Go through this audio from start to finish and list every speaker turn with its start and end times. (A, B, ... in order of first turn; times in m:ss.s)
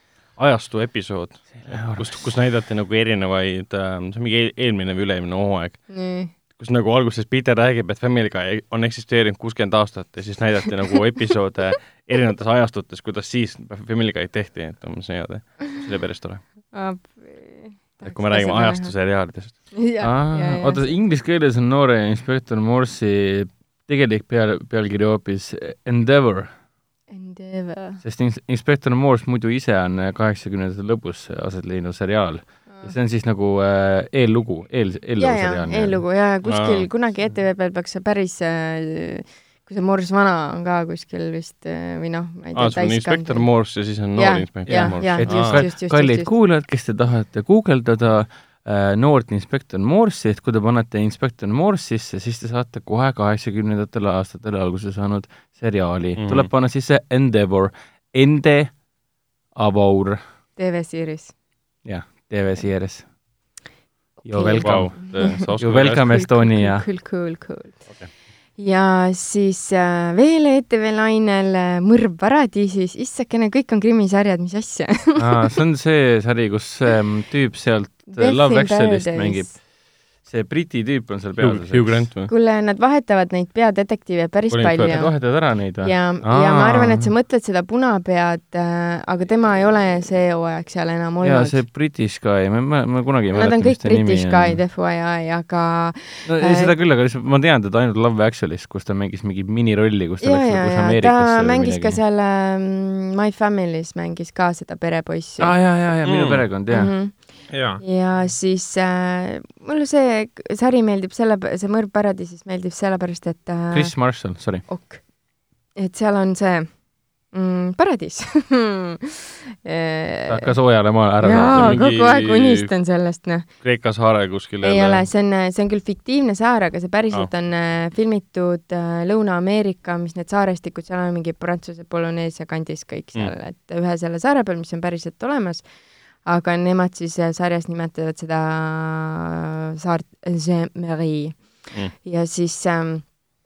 0:00.3-0:05.9 A
0:01.7-0:02.2 B
0:05.9-0:06.3 C
0:06.6-0:16.4 A
0:16.7-0:18.9 C
0:18.0-0:19.6 A
0:19.7-0:20.9 C
0:20.0-0:26.5 B
0:27.1-0:28.0 C
0:28.0-0:36.0 B
0:35.2-0:43.5 C
0:36.4-0:36.9 A
0:42.5-0:45.6 A
0:44.2-0:46.3 C
0:44.7-0:58.8 B
0:56.2-0:56.5 A
0:59.5-1:00.2 B
1:00.6-1:01.3 C
1:01.8-1:03.1 B
1:04.2-1:05.5 C
1:04.2-1:06.8 B
1:04.6-1:06.2 A
1:06.1-1:07.8 C
1:08.6-1:15.6 C
1:15.2-1:19.6 B
1:18.1-1:19.5 C
1:20.2-1:22.0 B
1:21.4-1:22.3 A
1:22.3-1:25.2 C
1:24.6-1:27.1 B
1:25.8-1:31.6 C
1:31.2-1:34.6 B
1:33.3-1:36.7 C
1:36.2-1:42.0 B
1:40.2-1:45.5 C
1:45.4-1:46.9 B
1:46.0-1:46.4 A
1:46.7-1:54.0 C
1:47.5-1:47.8 A
1:53.7-1:54.7 B
1:54.6-1:55.0 C
1:55.7-1:56.8 C
1:57.3-2:00.5 C
2:00.3-2:02.0 B
2:01.2-2:03.5 C
2:01.5-2:02.7 A
2:03.6-2:05.1 A
2:04.6-2:15.7 C
2:16.2-2:23.1 C